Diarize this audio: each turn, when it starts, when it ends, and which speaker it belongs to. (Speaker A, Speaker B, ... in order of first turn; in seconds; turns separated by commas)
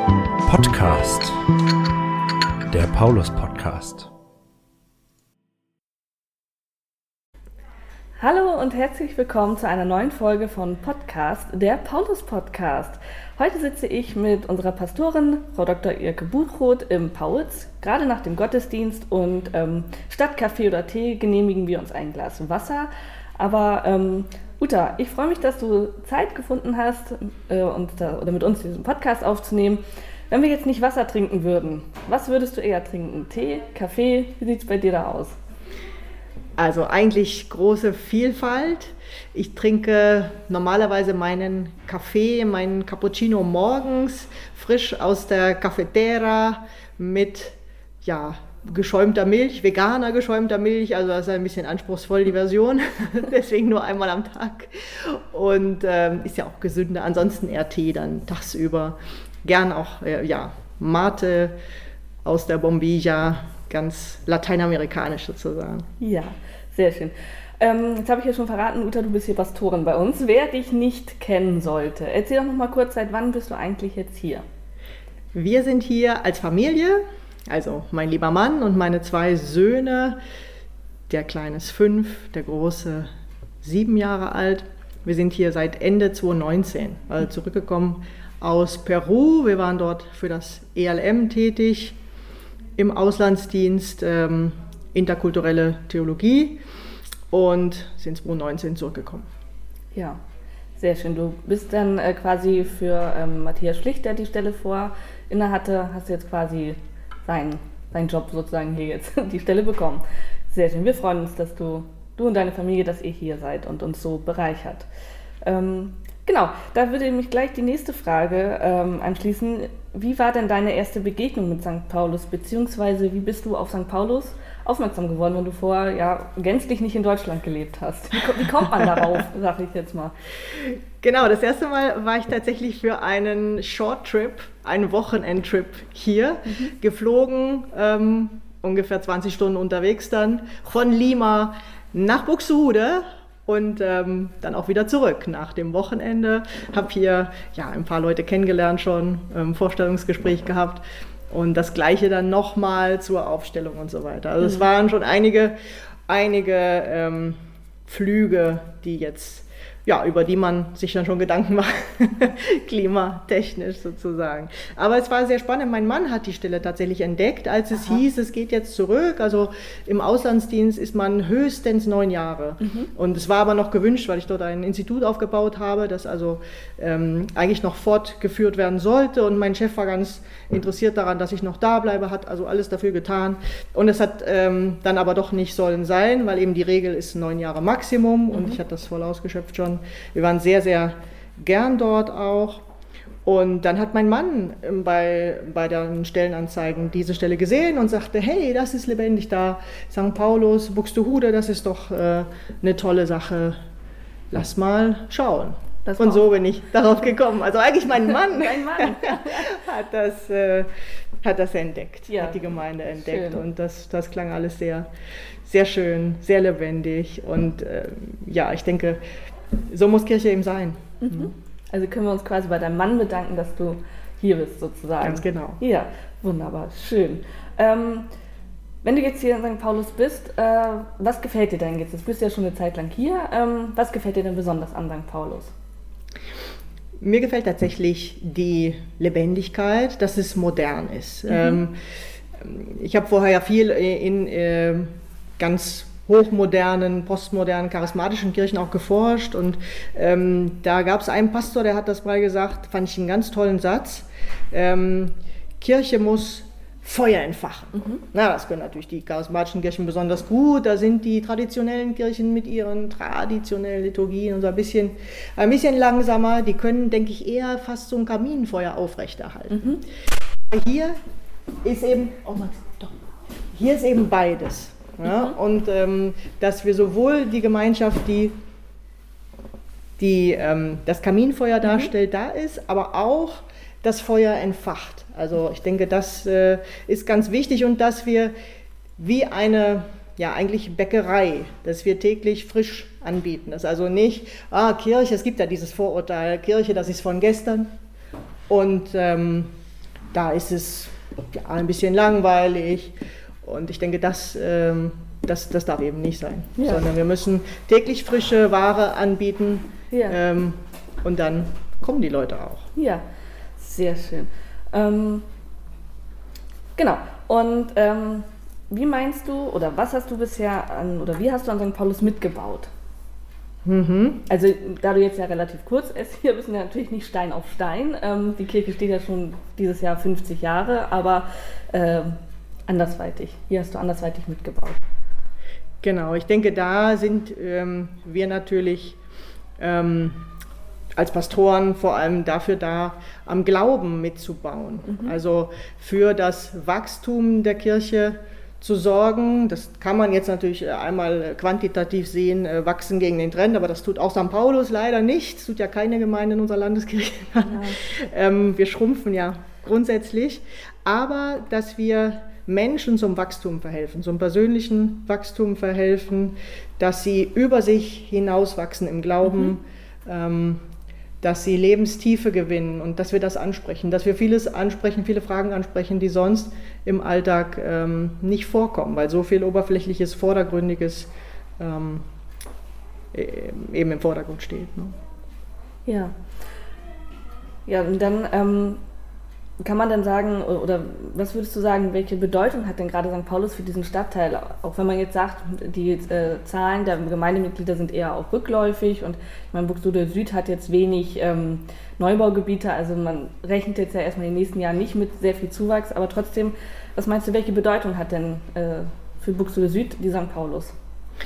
Speaker A: 0.4-1.4, Speaker A: 2.7-4.1, Speaker B: 8.2-35.4, Speaker C: 36.6-61.5, Speaker C: 62.2-65.8, Speaker B: 66.0-74.4, Speaker C: 75.3-80.2, Speaker C: 81.1-83.1, Speaker C: 83.6-92.0, Speaker C: 92.8-96.6, Speaker C: 97.3-99.2, Speaker B: 99.9-100.2, Speaker B: 100.8-114.9, Speaker B: 115.4-130.1, Speaker C: 130.5-155.5, Speaker B: 154.4-154.7, Speaker C: 156.1-192.6, Speaker B: 172.6-172.9, Speaker B: 188.3-188.6, Speaker C: 193.2-203.6, Speaker C: 204.3-210.7, Speaker B: 205.8-206.2, Speaker B: 208.1-209.6, Speaker C: 211.2-214.9, Speaker B: 212.1-212.4, Speaker B: 213.0-213.4, Speaker C: 215.4-219.0, Speaker C: 219.7-221.3, Speaker B: 221.0-228.1, Speaker C: 225.0-225.6, Speaker B: 228.8-235.5, Speaker C: 237.0-241.7, Speaker B: 241.3-241.6, Speaker C: 242.4-244.9, Speaker C: 245.4-269.8, Speaker B: 269.5-269.8, Speaker C: 270.5-270.9, Speaker C: 271.6-272.9, Speaker C: 273.5-278.3, Speaker B: 275.0-275.4, Speaker C: 280.0-288.3, Speaker B: 281.6-281.9, Speaker C: 289.0-297.7, Speaker C: 298.5-299.5, Speaker C: 300.1-312.6, Speaker B: 306.6-306.8, Speaker B: 309.9-310.2, Speaker B: 312.8-313.0, Speaker B: 313.6-315.3, Speaker B: 316.8-322.7, Speaker C: 323.6-324.2, Speaker B: 324.3-332.1, Speaker B: 332.7-334.8, Speaker C: 335.8-339.0, Speaker C: 339.6-340.3, Speaker C: 340.9-370.6, Speaker B: 344.9-345.1, Speaker B: 357.4-357.8, Speaker B: 369.2-369.5, Speaker C: 371.2-382.0, Speaker C: 383.1-384.9, Speaker B: 385.9-386.1, Speaker B: 387.6-388.8, Speaker B: 389.6-410.7